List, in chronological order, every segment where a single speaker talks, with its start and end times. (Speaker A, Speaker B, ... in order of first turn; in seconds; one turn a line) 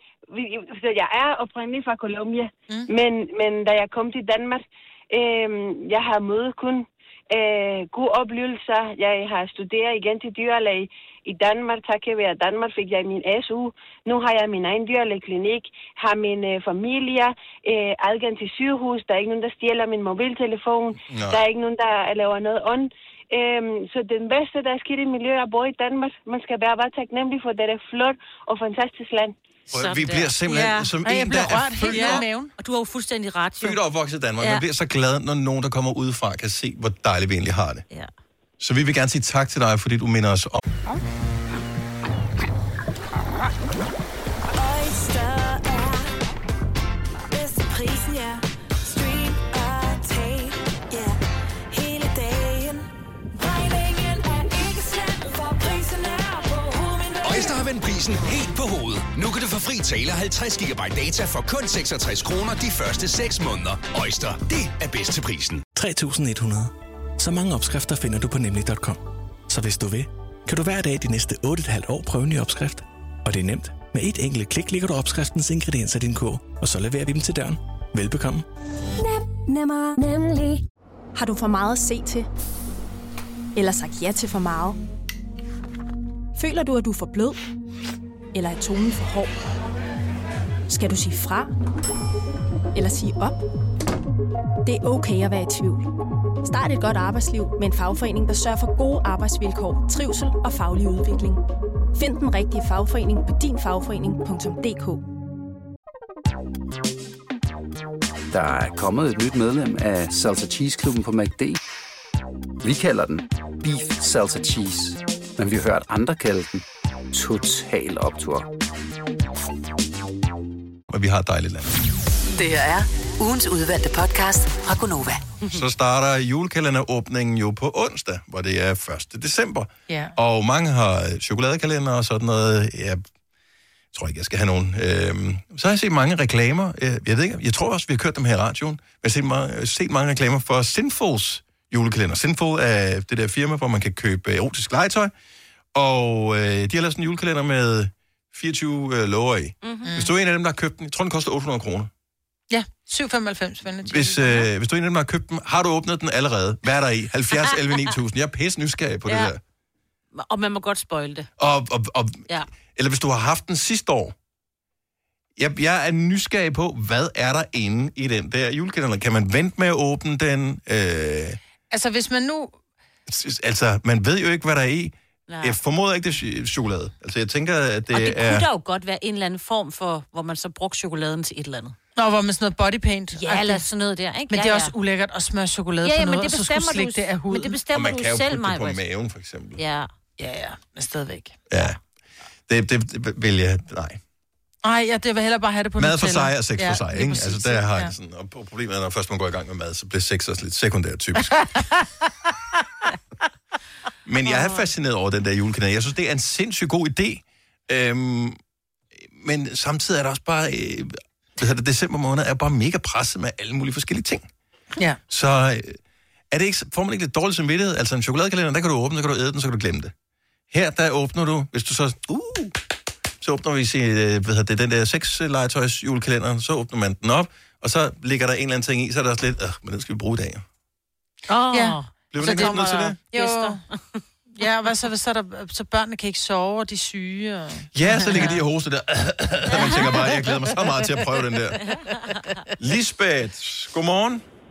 Speaker A: 0.3-29.4
Speaker B: 21.1-21.4
Speaker B: 29.7-32.3
Speaker C: 29.8-30.9
Speaker D: 31.0-32.5
Speaker C: 31.8-33.8
Speaker B: 33.6-37.8
Speaker B: 38.6-40.6
Speaker E: 44.5-46.1
Speaker E: 47.3-51.2
Speaker E: 51.7-57.7
Speaker F: 57.2-65.6
Speaker G: 65.7-78.4
Speaker H: 79.5-80.5
Speaker H: 81.2-82.3
Speaker H: 83.5-84.8
Speaker H: 86.4-87.4
Speaker H: 88.3-89.4
Speaker H: 90.7-91.5
Speaker H: 92.7-93.4
Speaker H: 94.7-95.9
Speaker H: 96.4-101.4
Speaker H: 101.9-105.0
Speaker I: 108.3-111.6
Speaker I: 112.6-118.5
Speaker B: 120.9-121.8
Speaker J: 122.4-125.2
Speaker B: 125.5-133.0
Speaker D: 129.9-130.1
Speaker B: 133.9-145.1
Speaker B: 145.7-151.9
Speaker C: 149.6-149.9
Speaker D: 149.8-150.1
Speaker D: 152.5-154.5
Speaker B: 153.8-159.4
Speaker C: 159.1-159.3
Speaker C: 160.2-161.3
Speaker B: 161.4-164.1
Speaker B: 165.4-171.4
Speaker D: 171.7-172.6
Speaker B: 173.1-178.5
Speaker C: 175.3-175.6
Speaker C: 177.9-181.8
Speaker D: 181.9-183.7
Speaker C: 183.1-184.7
Speaker D: 184.3-187.6
Speaker C: 185.8-188.8
Speaker B: 187.7-189.6
Speaker C: 189.6-189.9
Speaker D: 190.2-191.4
Speaker B: 191.5-191.8
Speaker B: 192.5-194.0
Speaker D: 194.6-197.9
Speaker B: 195.8-201.5
Speaker B: 204.1-208.4
Speaker D: 204.3-204.6
Speaker B: 209.0-214.3
Speaker B: 215.1-215.8
Speaker B: 216.3-219.9
Speaker B: 220.5-222.6
Speaker B: 223.2-230.4
Speaker C: 231.3-234.4
Speaker D: 231.5-233.6
Speaker B: 232.1-233.0
Speaker D: 234.4-238.3
Speaker B: 237.7-241.6
Speaker C: 239.7-239.9
Speaker C: 241.6-242.1
Speaker D: 242.1-242.3
Speaker B: 242.6-244.2